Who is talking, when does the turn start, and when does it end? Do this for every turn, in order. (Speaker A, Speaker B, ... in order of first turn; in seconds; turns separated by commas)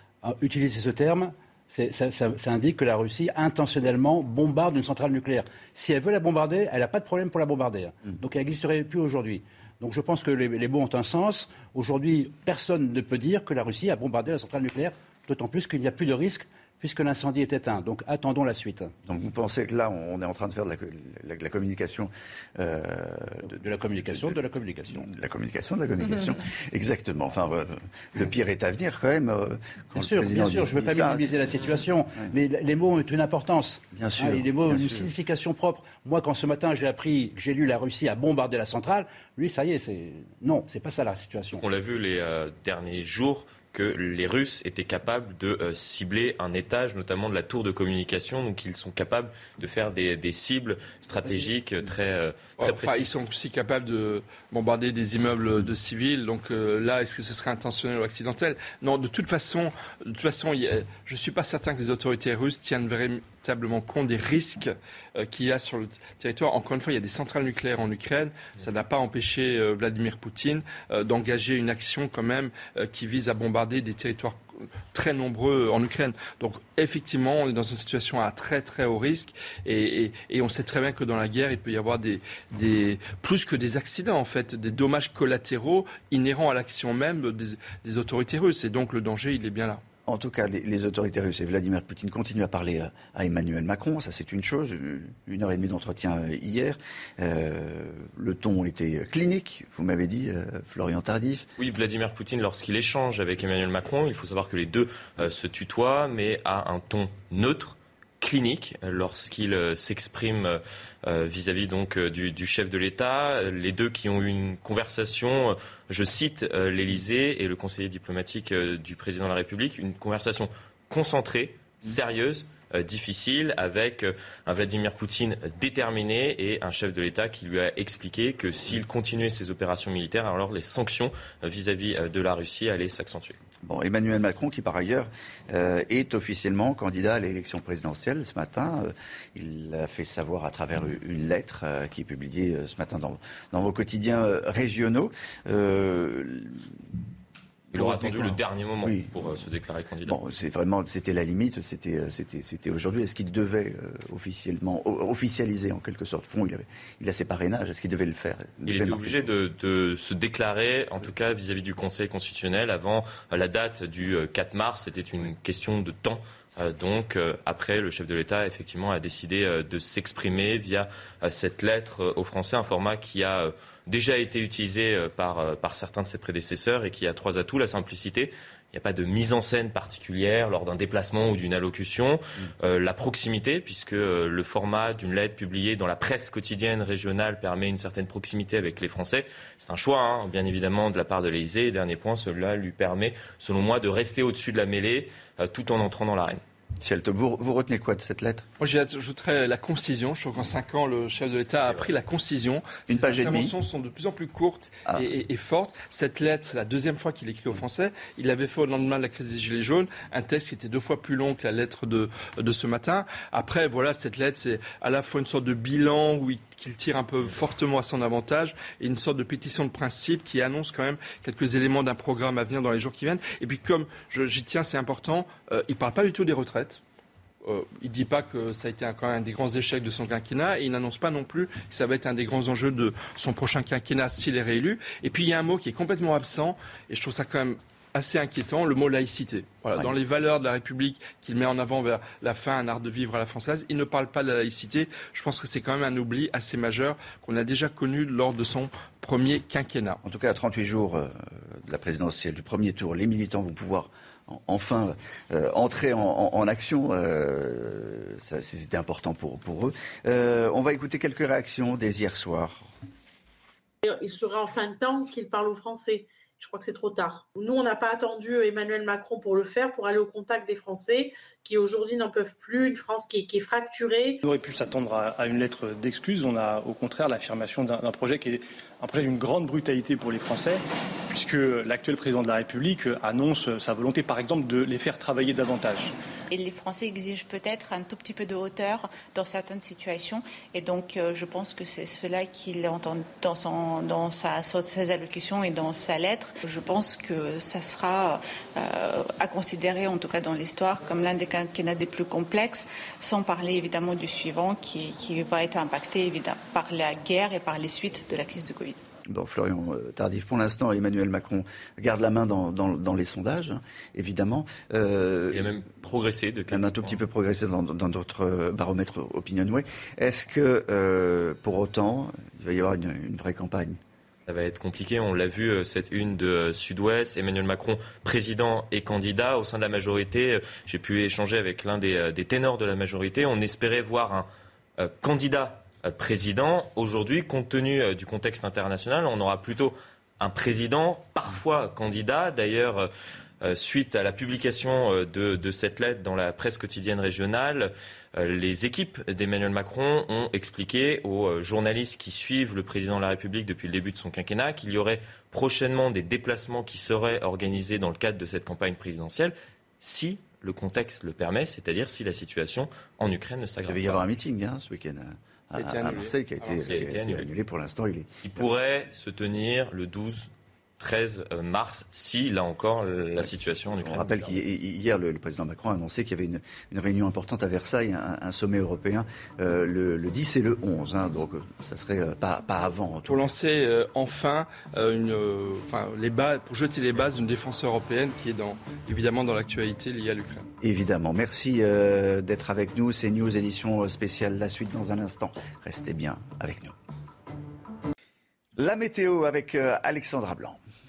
Speaker A: 0.2-18.9, Speaker B: 19.1-24.4, Speaker A: 23.5-25.0, Speaker B: 24.9-31.5, Speaker A: 30.0-41.6, Speaker B: 33.9-35.1, Speaker C: 41.6-53.1, Speaker D: 52.6-89.8, Speaker B: 90.1-101.5, Speaker C: 101.6-133.4, Speaker B: 133.6-146.8, Speaker B: 147.7-149.3, Speaker C: 147.7-150.2, Speaker B: 150.1-159.2, Speaker C: 158.7-196.4, Speaker B: 196.8-198.4, Speaker D: 198.6-226.8, Speaker B: 202.9-203.5, Speaker D: 227.4-250.0, Speaker B: 250.0-262.7, Speaker E: 263.8-274.2, Speaker F: 274.2-285.9, Speaker G: 286.3-308.8, Speaker B: 309.1-315.5, Speaker C: 315.3-317.0, Speaker B: 316.5-323.8, Speaker C: 324.3-342.9, Speaker C: 343.4-364.1, Speaker B: 363.7-368.5, Speaker C: 365.7-367.3, Speaker C: 368.2-374.4, Speaker B: 373.8-383.3, Speaker D: 383.1-390.5, Speaker B: 390.6-396.8, Speaker B: 398.6-400.6